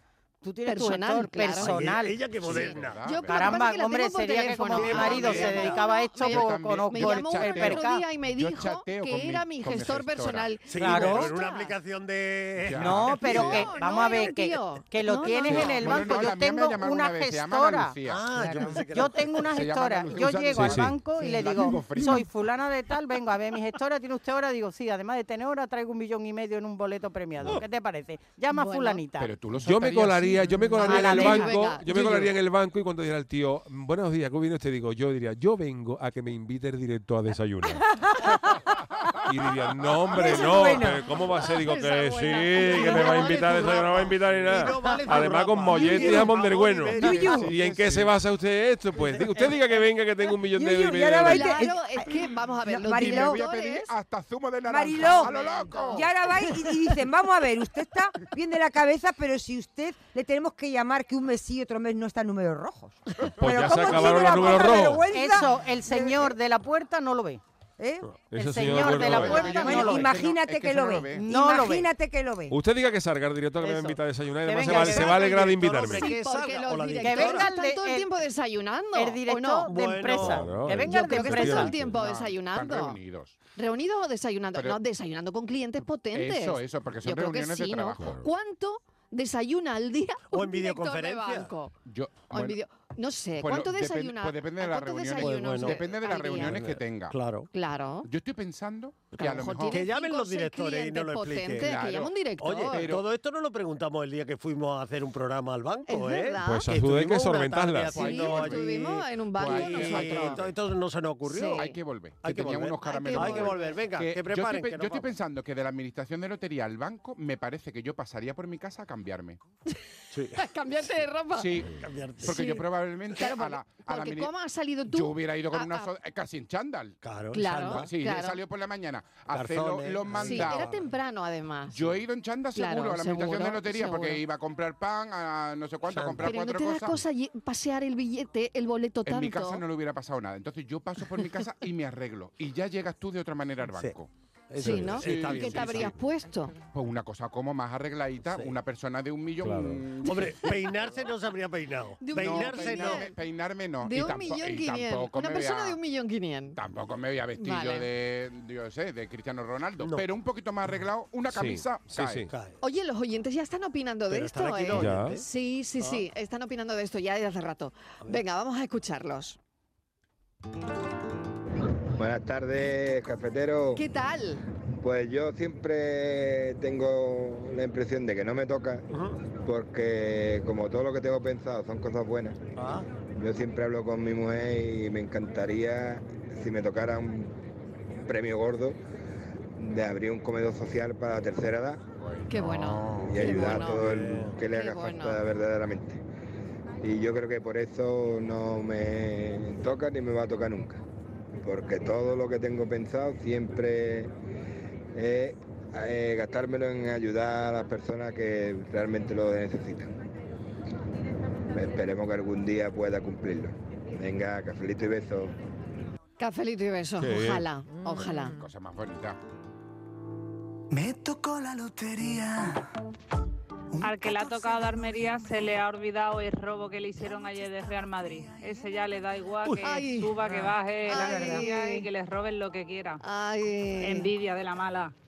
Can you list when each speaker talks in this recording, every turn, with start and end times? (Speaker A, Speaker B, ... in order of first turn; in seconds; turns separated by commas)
Speaker A: 0.4-2.3, Speaker B: 0.7-1.8, Speaker C: 1.5-3.5, Speaker D: 2.3-3.7, Speaker B: 2.5-11.7, Speaker A: 3.3-8.0, Speaker C: 4.7-5.8, Speaker D: 4.8-11.2, Speaker C: 10.7-13.7, Speaker A: 10.8-11.3, Speaker D: 12.6-13.6, Speaker A: 12.8-18.0, Speaker B: 13.2-16.3, Speaker D: 15.4-22.2, Speaker C: 18.1-20.4, Speaker E: 18.4-18.9, Speaker A: 18.9-29.3, Speaker F: 20.6-21.0, Speaker E: 21.2-21.6, Speaker B: 28.5-29.0, Speaker D: 29.2-32.3, Speaker F: 29.6-37.9, Speaker B: 30.7-31.9, Speaker A: 30.9-31.5, Speaker F: 39.3-51.7, Speaker D: 39.8-40.2, Speaker E: 40.1-41.0, Speaker B: 41.4-43.5, Speaker A: 41.6-44.1, Speaker C: 42.7-47.5, Speaker E: 45.7-46.3, Speaker E: 47.0-47.5, Speaker D: 47.0-48.1, Speaker E: 50.5-53.4, Speaker B: 51.2-53.9, Speaker D: 52.9-56.1, Speaker E: 54.7-66.3, Speaker F: 63.4-65.1, Speaker D: 63.5-64.0, Speaker A: 64.5-67.4, Speaker E: 67.8-68.1, Speaker F: 68.3-69.5, Speaker A: 68.3-70.1, Speaker D: 68.7-71.3, Speaker C: 69.0-70.0, Speaker E: 69.3-72.6, Speaker B: 69.3-69.6, Speaker A: 71.1-71.9, Speaker F: 72.5-76.1, Speaker A: 73.6-75.5, Speaker C: 74.5-77.5, Speaker B: 75.7-79.7, Speaker A: 77.0-78.1, Speaker A: 79.0-81.7, Speaker C: 79.7-81.3, Speaker F: 80.2-82.0, Speaker B: 80.7-83.0, Speaker D: 81.9-83.4, Speaker B: 83.5-91.8, Speaker D: 84.5-84.8, Speaker D: 86.1-88.2, Speaker F: 88.0-88.2, Speaker C: 90.3-91.5, Speaker D: 91.8-92.6, Speaker B: 92.3-96.6, Speaker D: 93.4-97.2, Speaker C: 95.2-97.5, Speaker B: 97.5-98.1, Speaker D: 98.0-99.9, Speaker B: 99.1-102.9, Speaker C: 99.7-101.9, Speaker D: 101.4-103.1, Speaker C: 102.4-111.6, Speaker B: 105.9-106.7, Speaker F: 106.4-108.1, Speaker D: 107.9-110.6, Speaker B: 107.9-110.4, Speaker B: 111.2-111.8, Speaker D: 111.5-119.4, Speaker C: 112.2-115.2, Speaker B: 112.8-113.8, Speaker C: 120.1-120.4, Speaker B: 120.4-121.5, Speaker D: 121.3-124.3, Speaker C: 121.8-122.5, Speaker B: 122.2-125.9, Speaker D: 124.9-127.0, Speaker C: 127.0-127.9, Speaker B: 127.3-128.4, Speaker D: 127.7-130.8, Speaker C: 129.3-130.8, Speaker B: 130.2-132.0, Speaker D: 131.7-137.0, Speaker B: 132.6-134.2, Speaker C: 135.9-136.4, Speaker B: 136.2-139.6, Speaker D: 139.1-146.0, Speaker C: 143.7-144.0, Speaker C: 144.5-146.0, Speaker B: 144.6-146.5, Speaker D: 146.7-151.1, Speaker F: 149.4-149.9, Speaker C: 150.0-153.1, Speaker B: 152.0-153.1, Speaker D: 152.1-155.8, Speaker B: 153.8-156.6, Speaker D: 156.6-162.2, Speaker B: 157.4-157.9, Speaker F: 161.3-162.3, Speaker C: 162.3-162.6, Speaker B: 162.6-169.4, Speaker C: 164.1-165.2, Speaker F: 164.7-165.2, Speaker C: 165.8-166.1, Speaker G: 172.0-173.8, Speaker B: 173.8-174.4, Speaker G: 174.8-178.9, Speaker C: 178.9-179.2, Speaker G: 179.4-182.4, Speaker C: 182.6-182.9, Speaker G: 183.2-187.3, Speaker G: 188.1-188.8, Speaker G: 189.6-191.8, Speaker D: 192.0-193.3, Speaker B: 192.3-193.8, Speaker G: 193.0-196.0, Speaker C: 193.3-194.4, Speaker B: 194.5-195.2, Speaker G: 196.8-200.8, Speaker G: 201.4-204.1, Speaker G: 204.9-209.9, Speaker G: 211.5-215.3, Speaker B: 216.2-218.4, Speaker F: 217.0-217.5, Speaker E: 217.8-218.3, Speaker D: 218.3-219.2, Speaker H: 220.7-222.7, Speaker H: 223.8-224.2, Speaker I: 223.8-233.0, Speaker B: 229.6-230.2, Speaker E: 230.2-231.4, Speaker B: 230.9-231.9, Speaker B: 233.0-234.1, Speaker I: 233.8-234.9